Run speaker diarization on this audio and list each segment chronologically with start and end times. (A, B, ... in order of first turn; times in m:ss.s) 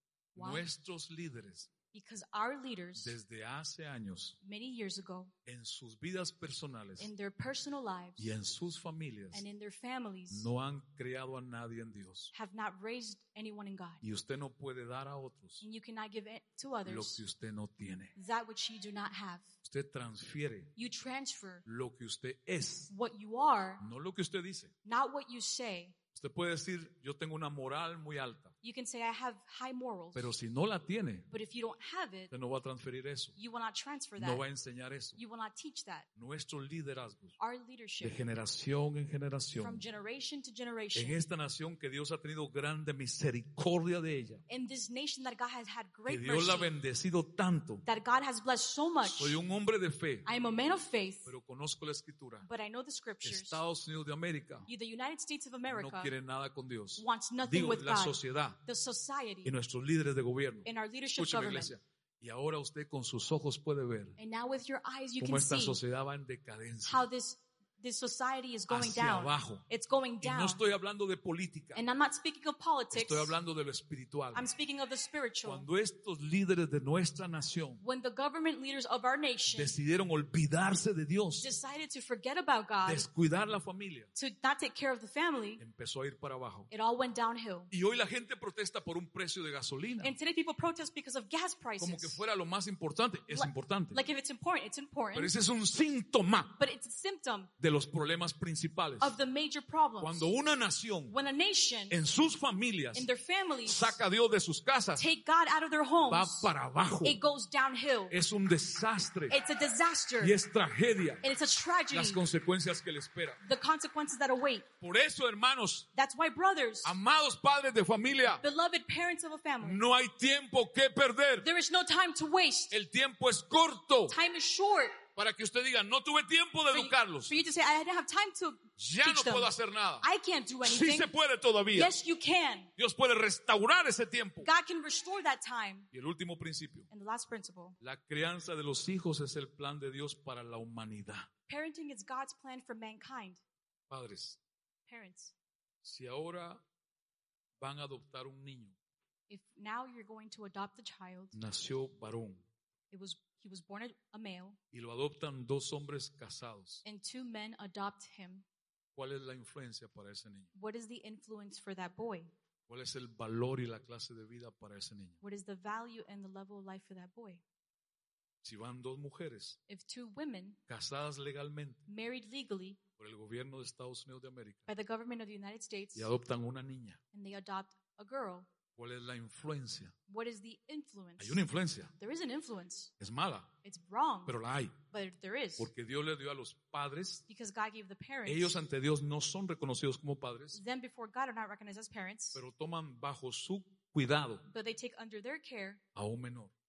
0:00.3-0:00.6 A
0:00.4-0:01.7 B
0:01.9-0:03.2 A
0:03.0-0:04.4 B
0:04.4-0:05.3 A
0:05.4-0:07.1 B
0:07.0-0:08.3 A
0:08.2-0:09.5 B
0:09.3-0:10.5 A
0:10.3-0:12.3 B
0:12.3-0:14.0 A
0:14.0-0:15.6 B
0:15.6-0:17.2 A
0:16.8-0:18.1 B
0:18.2-0:19.5 A
0:19.6-0:20.7 B
0:20.8-0:21.6 A
0:21.6-0:22.9 B
0:22.9-0:23.8 A
0:23.8-0:24.7 B
0:24.8-0:26.0 A
0:26.1-0:28.5 B
0:28.6-0:30.3 A
0:30.1-0:31.3 B
0:31.3-0:32.3 A
0:32.3-0:33.4 B
0:33.4-0:34.4 A
0:34.2-0:35.2 B
0:35.2-0:36.1 A
0:36.2-0:37.4 B
0:37.4-0:38.2 A
0:38.0-0:39.8 B
0:39.6-0:41.2 A
0:40.9-0:44.4 B
0:44.5-0:46.7 A
0:46.1-0:47.8 B
0:47.8-0:49.4 A
0:49.0-0:50.3 B
0:50.2-0:51.3 A
0:51.2-0:52.5 B
0:52.4-0:53.6 A
0:53.2-0:54.7 B
0:54.7-0:56.1 A
0:55.7-0:58.6 B
0:57.0-0:59.5 A
0:59.4-1:04.2 B
1:00.6-1:01.7 A
1:04.2-1:05.8 A
1:05.2-1:07.1 B
1:06.8-1:10.6 A
1:08.7-1:09.6 B
1:10.2-1:11.8 B
1:11.7-1:13.3 A
1:12.9-1:14.5 B
1:14.3-1:15.7 A
1:15.4-1:17.8 B
1:17.8-1:19.7 A
1:19.5-1:21.5 B
1:21.4-1:23.1 A
1:22.8-1:24.1 B
1:24.1-1:25.6 A
1:25.6-1:26.7 B
1:26.7-1:27.7 A
1:27.7-1:30.2 B
1:30.0-1:32.2 A
1:31.8-1:34.0 B
1:33.3-1:35.3 A
1:35.1-1:36.6 B
1:36.6-1:37.5 A
1:37.6-1:39.2 B
1:39.0-1:40.3 A
1:40.0-1:41.2 B
1:41.1-1:42.0 A
1:41.9-1:43.1 B
1:42.9-1:44.0 A
1:43.6-1:45.0 B
1:45.0-1:46.5 A
1:46.0-1:47.2 B
1:47.0-1:48.1 A
1:48.1-1:49.4 B
1:49.3-1:50.4 A
1:50.2-1:51.2 B
1:51.2-1:52.2 A
1:51.9-1:53.4 B
1:53.4-1:54.7 A
1:54.8-1:55.9 B
1:55.9-1:57.0 A
1:56.8-1:58.4 B
1:58.4-1:59.8 A
1:59.6-2:01.5 B
2:01.4-2:02.7 A
2:02.7-2:04.2 B
2:04.1-2:05.0 A
2:05.2-2:07.3 B
2:06.7-2:11.1 A
2:08.8-2:10.1 B
2:10.6-2:11.9 B
2:11.7-2:12.7 A
2:12.8-2:14.5 B
2:14.4-2:15.9 A
2:15.9-2:16.9 B
2:16.9-2:17.8 A
2:17.8-2:21.3 B
2:21.5-2:23.4 A
2:23.9-2:24.4 B
2:24.9-2:25.3 A
2:25.8-2:26.6 B
2:27.6-2:28.8 B
2:29.3-2:31.4 A
2:31.3-2:32.4 B
2:32.9-2:34.6 A
2:34.7-2:36.8 B
2:36.8-2:38.4 A
2:39.0-2:40.5 B
2:40.5-2:42.3 A
2:42.7-2:45.2 B
2:45.2-2:47.4 A
2:48.4-2:49.6 B
2:49.7-2:50.6 A
2:50.7-2:51.9 B
2:51.9-2:52.8 A
2:53.0-2:54.7 B
2:54.7-2:56.1 A
2:55.9-2:57.0 B
2:57.1-2:58.5 A
2:58.8-3:00.0 B
3:00.1-3:01.4 A
3:01.2-3:01.9 B
3:02.0-3:02.9 A
3:03.0-3:03.5 B
3:03.6-3:04.4 A
3:04.3-3:04.8 B
3:04.9-3:05.7 A
3:05.6-3:07.2 B
3:07.3-3:08.6 A
3:08.2-3:10.6 B
3:10.5-3:12.4 A
3:12.3-3:14.5 B
3:14.5-3:15.8 A
3:15.9-3:16.5 B